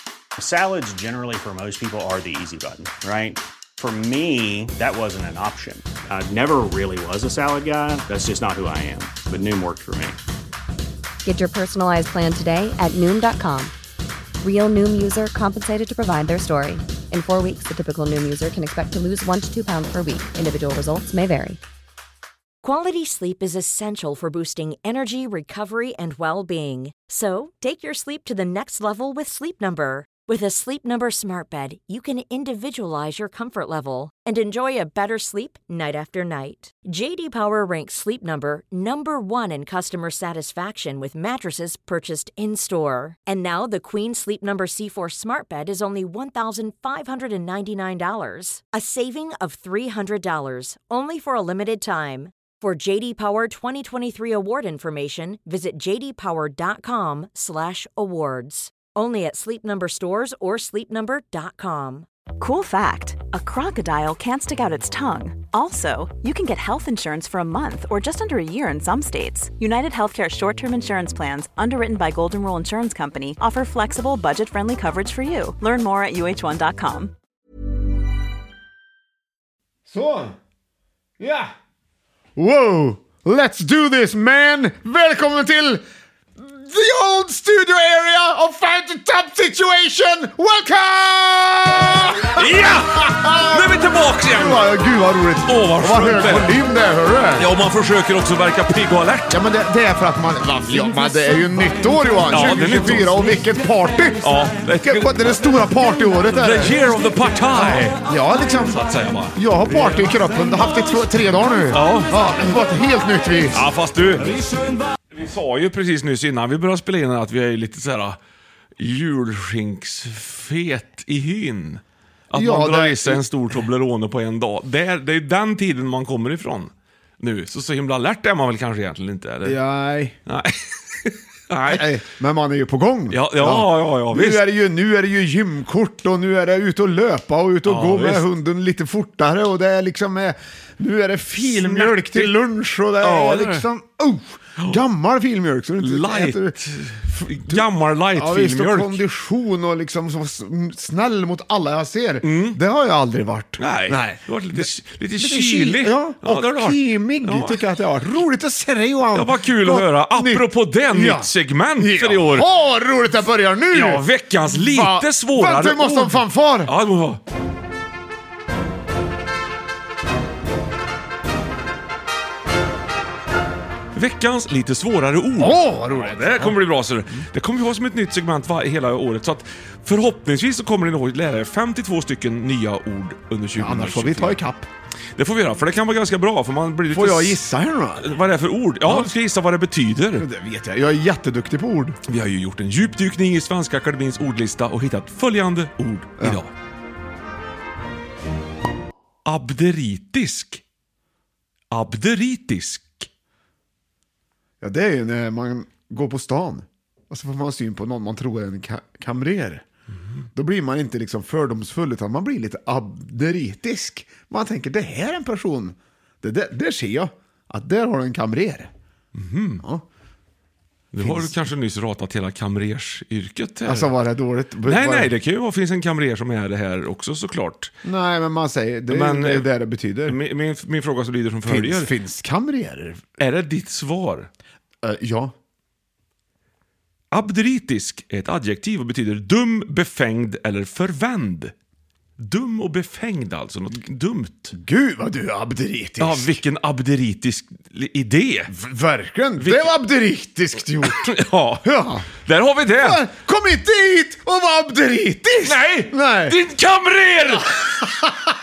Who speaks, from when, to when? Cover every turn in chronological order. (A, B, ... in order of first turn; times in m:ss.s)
0:00.4-0:10.2 A
0:11.2-0:13.7 B
0:14.4-0:21.6 B
0:22.6-1:02.1 C
1:02.4-1:17.1 D
1:19.9-1:20.4 E
1:21.2-1:21.5 E
1:22.4-1:25.8 E
1:26.4-1:37.5 E
1:32.3-1:34.8 F
1:35.4-1:36.6 F
1:37.4-1:39.4 F
1:39.3-1:46.8 E
1:42.3-1:43.4 F
1:44.2-1:45.1 F
1:46.3-1:48.0 F
1:47.6-1:48.8 E
1:48.7-1:50.1 F
1:49.3-1:53.6 E
1:51.7-1:52.2 F
1:53.5-1:54.4 F
1:55.1-1:58.2 F
1:58.8-2:09.6 F
2:02.3-2:03.2 E
2:09.4-2:10.2 E
2:10.2-2:11.9 F
2:11.6-2:26.6 E
2:13.1-2:14.5 F
2:17.6-2:18.3 F
2:21.4-2:22.4 F
2:23.0-2:23.7 F
2:25.8-2:29.0 F
2:27.1-2:46.7 E
2:32.2-2:32.6 F
2:33.6-2:37.6 F
2:39.1-2:42.5 F
2:43.7-2:47.2 F
2:53.9-3:04.4 F
2:55.4-2:56.6 E
3:03.6-3:04.7 E
3:05.2-3:07.4 F
3:06.9-3:08.1 E
3:08.0-3:10.3 F
3:10.2-3:12.0 E
3:12.0-3:16.5 F
3:19.2-3:20.6 F
3:21.7-3:23.1 F
3:24.6-3:29.6 E
3:30.3-3:38.7 E
3:39.1-3:39.6 F
3:40.9-3:43.9 F
3:41.0-3:41.3 E
3:43.6-3:45.1 E
3:44.6-3:47.7 F
3:47.8-3:50.2 E
3:48.9-3:49.5 F
3:50.0-3:51.9 F
3:51.4-3:53.0 E
3:53.2-3:54.3 F
3:54.8-3:55.3 E
3:57.1-4:01.5 F
4:02.2-4:04.5 F
4:04.5-4:06.4 E
4:06.0-4:08.5 F
4:08.5-4:12.1 E
4:09.4-4:09.7 F
4:10.8-4:13.0 F
4:12.8-4:16.4 E
4:15.4-4:17.5 F
4:17.5-4:18.2 E